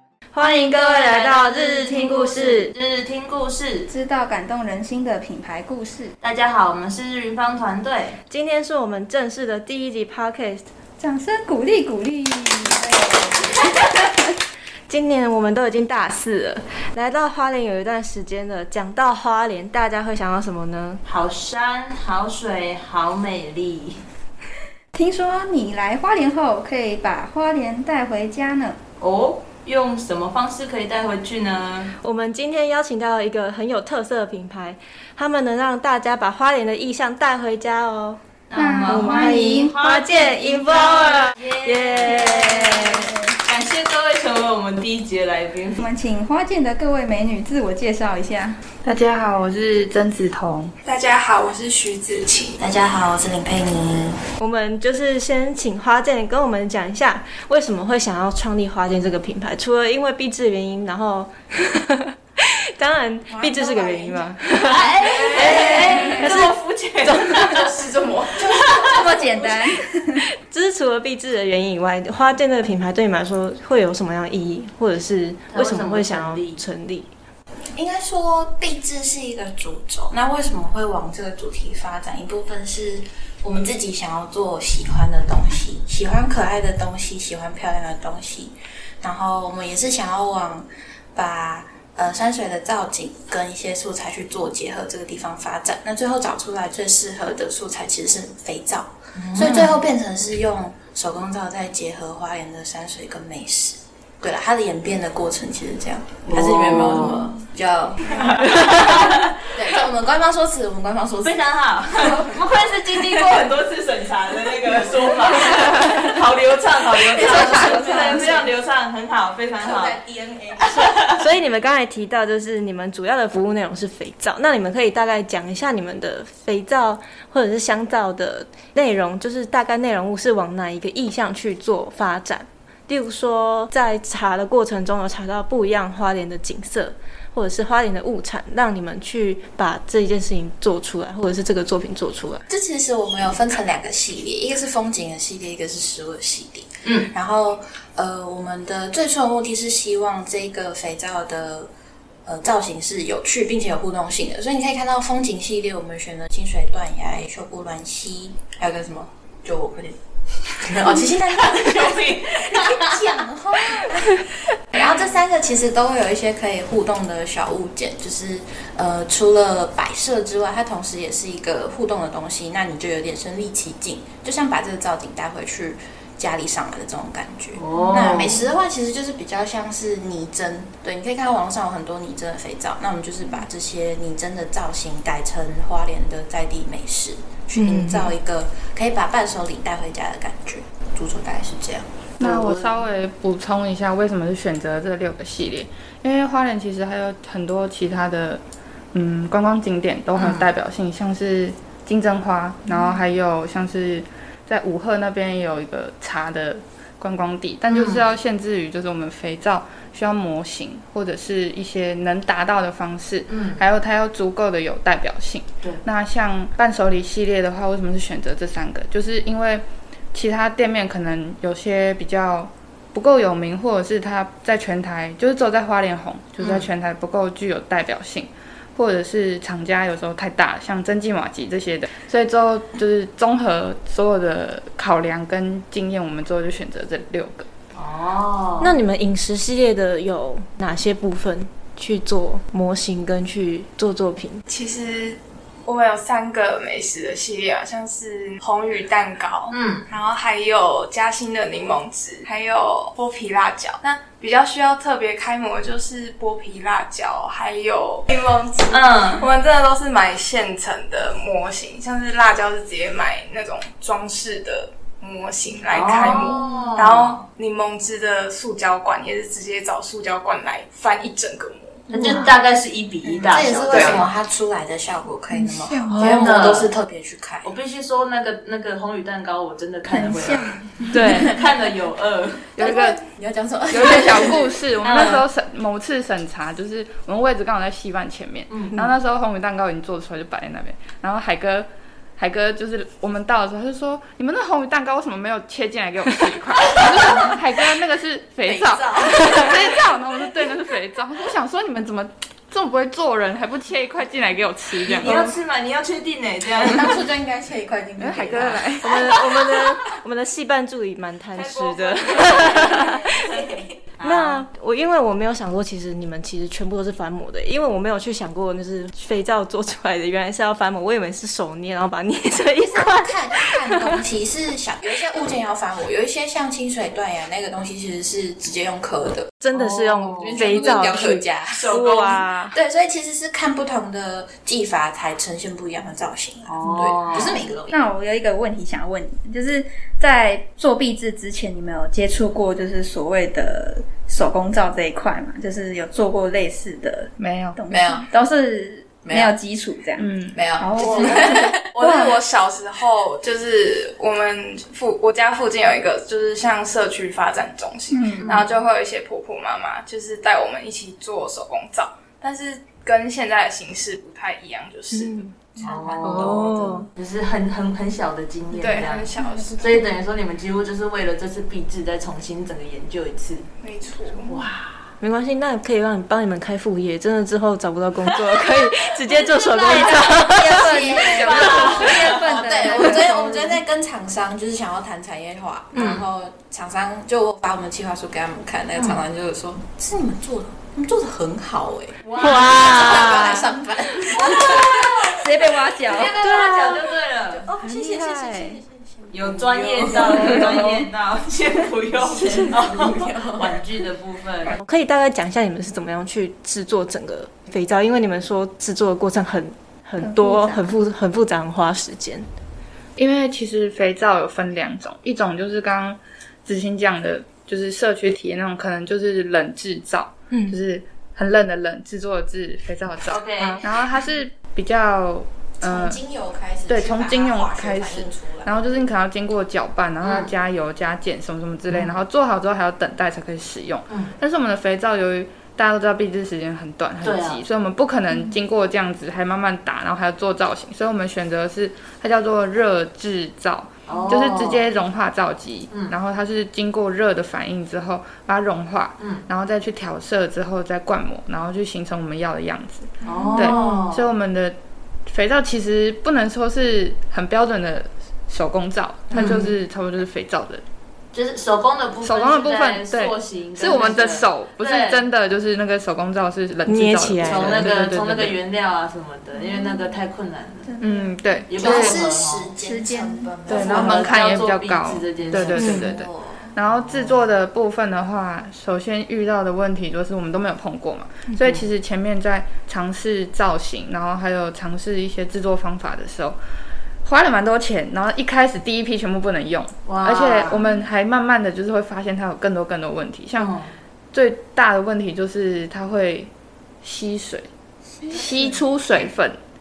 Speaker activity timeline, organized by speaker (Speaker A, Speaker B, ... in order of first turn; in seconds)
Speaker A: 0.3-2.7, 8.3-10.7, 14.9-21.0, 32.0-38.2, 38.8-43.0, 54.4-67.4, 70.3-77.1, 120.7-142.4, 187.6-188.1, 238.6-244.4, 275.9-276.2, 280.9-281.3, 308.8-324.0, 329.4-332.6, 364.9-365.4, 366.0-366.9, 375.0-380.7, 381.7-382.1, 385.7-386.0, 392.2-393.5, 396.2-396.9, 397.6-398.6, 404.5-412.3, 420.3-420.6, 466.6-467.7, 475.5-475.9
Speaker B: 0.4-2.4, 3.9-6.1, 11.0-14.2, 24.9-28.8, 38.5-39.8, 42.0-43.3, 45.8-48.6, 65.6-66.2, 68.8-70.3, 117.5-118.2, 275.3-276.1, 279.9-281.4, 337.7-352.2, 357.9-358.4, 369.2-369.5, 379.3-383.6, 394.1-396.2, 400.0-400.6, 410.0-410.6, 470.6-471.8, 472.6-473.6
Speaker C: 1.1-1.4, 2.3-3.9, 6.2-8.2, 21.0-24.0, 29.0-31.9, 38.5-45.9, 64.6-67.7, 68.4-69.0, 75.5-76.6, 99.2-99.8, 106.3-107.3, 108.1-109.4, 111.2-120.0, 120.7-121.2, 161.3-163.2, 177.5-178.5, 192.2-192.8, 200.2-200.5, 207.7-208.0, 213.3-213.6, 226.4-226.7, 237.7-238.8, 249.5-249.9, 258.7-259.2, 265.7-267.1, 271.9-274.0, 276.1-276.7, 277.4-282.5, 284.8-285.2, 288.5-288.8, 304.9-307.0, 311.3-314.4, 329.5-330.5, 331.6-332.0, 336.5-337.4, 350.8-351.4, 358.1-358.4, 365.6-373.5, 374.3-374.9, 379.6-382.8, 392.0-393.3, 394.3-395.1, 395.8-397.5, 399.1-404.5, 423.1-423.6, 430.0-430.3, 437.0-437.4, 443.9-444.6, 445.7-445.9, 449.0-449.2, 453.0-454.1, 459.1-459.5, 461.1-465.0, 467.2-470.7, 471.5-472.5, 473.5-475.8, 489.8-490.7, 493.4-493.7
Speaker D: 48.8-50.7, 117.5-118.0, 192.2-198.4, 198.9-237.5, 282.5-283.0, 283.7-305.4, 308.0-308.9, 347.2-347.6, 350.0-350.4, 381.4-381.9, 413.0-426.0, 426.7-454.6, 455.1-460.6, 462.0-468.4, 470.8-472.0, 473.4-486.4, 487.0-493.5, 494.1-496.3, 496.8-497.5, 498.1-499.4
Speaker E: 50.8-52.6, 65.0-65.4, 67.4-68.6, 244.5-271.9, 273.7-274.0, 351.1-366.6, 368.5-369.8, 373.6-374.4
Speaker F: 52.6-54.2, 63.3-64.4, 65.0-66.0, 68.4-69.6, 77.7-108.2, 109.5-112.4, 117.0-118.4, 119.6-121.1, 142.5-151.7, 152.2-160.0, 160.6-191.9, 273.0-277.5, 282.6-284.4, 298.4-299.7, 306.6-309.1, 322.6-329.3, 330.1-331.9, 332.5-337.8, 347.7-348.1, 349.0-349.3, 350.3-351.4, 380.6-395.1, 397.3-400.8, 402.0-403.6, 425.6-428.7, 471.6-474.1, 475.3-476.5